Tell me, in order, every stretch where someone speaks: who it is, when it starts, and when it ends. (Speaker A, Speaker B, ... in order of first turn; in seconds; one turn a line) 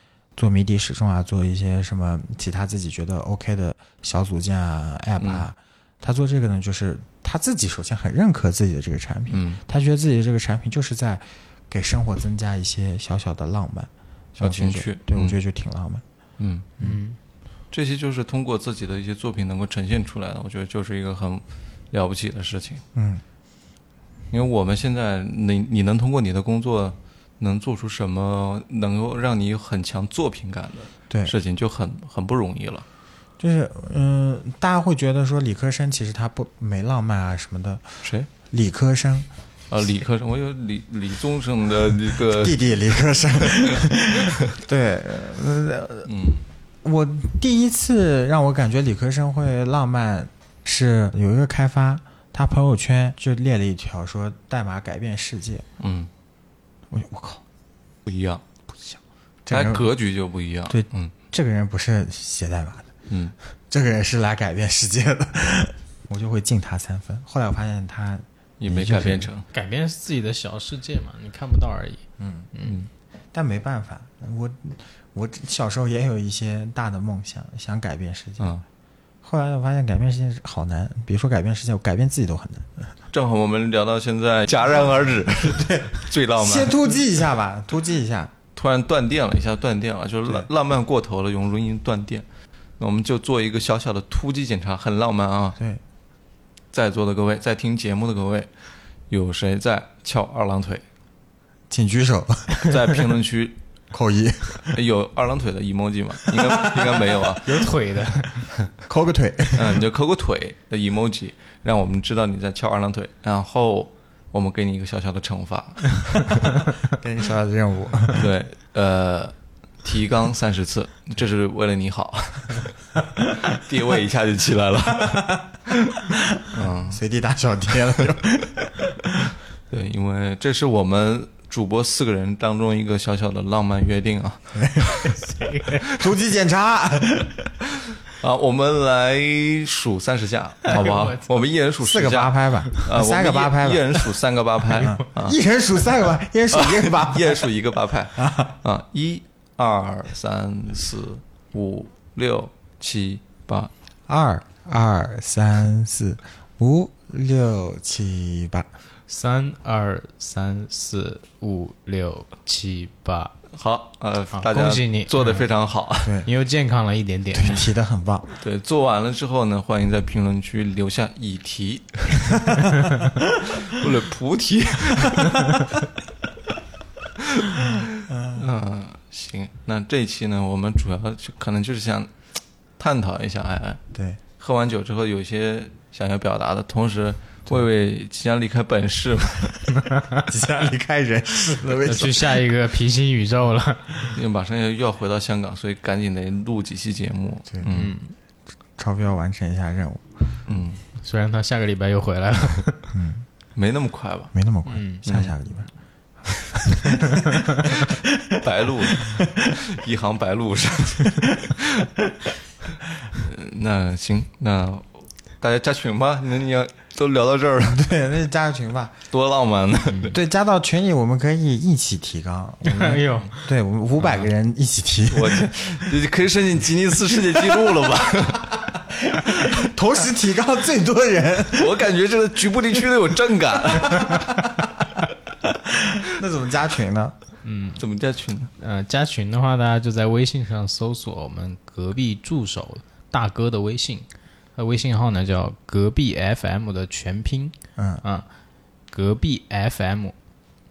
Speaker A: 0.4-16.0
Speaker B: 5.2-5.5
Speaker B: 9.3-9.6
Speaker B: 14.4-15.4
Speaker B: 16.4-16.7
Speaker C: 16.8-17.2
Speaker B: 17.7-22.8
Speaker A: 22.9-23.2
Speaker B: 24.3-32.9
Speaker A: 31.1-31.4
Speaker A: 33.4-39.3
Speaker B: 38.0-38.3
Speaker B: 39.7-42.7
Speaker A: 42.4-46.1
Speaker B: 43.3-44.3
Speaker B: 46.1-46.5
Speaker A: 46.8-55.7
Speaker B: 55.8-56.1
Speaker A: 56.9-57.4
Speaker B: 58.1-58.4
Speaker A: 58.8-59.9
Speaker B: 59.5-61.1
Speaker A: 60.7-62.9
Speaker B: 63.1-63.4
Speaker A: 63.7-69.3
Speaker B: 68.6-69.5
Speaker C: 69.5-72.8
Speaker A: 72.2-72.5
Speaker B: 72.6-72.9
Speaker A: 73.3-78.5
Speaker A: 79.2-82.9
Speaker B: 83.1-86.9
Speaker A: 85.3-88.3
Speaker B: 88.5-92.2
Speaker B: 92.8-95.6
Speaker B: 96.7-98.5
Speaker B: 99.1-100.8
Speaker A: 101.7-102.7
Speaker B: 102.6-103.6
Speaker A: 103.9-104.8
Speaker B: 104.7-107.6
Speaker A: 106.3-107.0
Speaker C: 107.5-108.5
Speaker A: 108.9-109.8
Speaker B: 109.5-116.4
Speaker A: 116.9-118.2
Speaker B: 118.1-122.8
Speaker B: 123.4-125.3
Speaker A: 125.0-125.4
Speaker A: 126.2-129.2
Speaker B: 126.5-127.0
Speaker B: 129.7-135.2
Speaker A: 134.5-135.1
Speaker C: 135.2-135.8
Speaker A: 135.9-137.5
Speaker B: 138.1-145.4
Speaker C: 140.7-141.4
Speaker A: 141.8-144.0
Speaker A: 144.8-147.5
Speaker B: 146.5-153.7
Speaker A: 148.2-148.6
Speaker A: 154.1-158.7
Speaker C: 159.1-163.4
Speaker B: 163.5-166.2
Speaker C: 164.3-165.3
Speaker C: 166.2-167.7
Speaker A: 167.3-168.3
Speaker B: 168.4-172.5
Speaker B: 173.4-175.4
Speaker B: 177.5-182.1
Speaker A: 178.1-178.4
Speaker B: 182.8-183.8
Speaker A: 183.9-184.2
Speaker B: 184.4-189.6
Speaker A: 190.3-192.4
Speaker C: 191.7-194.2
Speaker B: 194.2-197.9
Speaker C: 197.7-198.1
Speaker A: 198.8-200.1
Speaker B: 200.5-200.8
Speaker C: 201.0-202.9
Speaker A: 202.9-203.3
Speaker B: 203.6-204.3
Speaker A: 204.3-205.7
Speaker C: 204.7-205.0
Speaker B: 205.1-205.3
Speaker B: 208.4-211.9
Speaker A: 209.1-209.3
Speaker B: 213.1-217.9
Speaker A: 217.6-218.9
Speaker B: 219.1-220.2
Speaker A: 220.1-225.6
Speaker C: 222.6-223.5
Speaker B: 224.0-224.3
Speaker B: 225.1-228.6
Speaker A: 228.5-231.8
Speaker B: 231.5-234.2
Speaker A: 233.9-234.7
Speaker A: 235.4-237.2
Speaker C: 237.4-237.8
Speaker B: 237.8-238.5
Speaker C: 238.6-248.3
Speaker A: 247.8-248.0
Speaker C: 248.9-250.2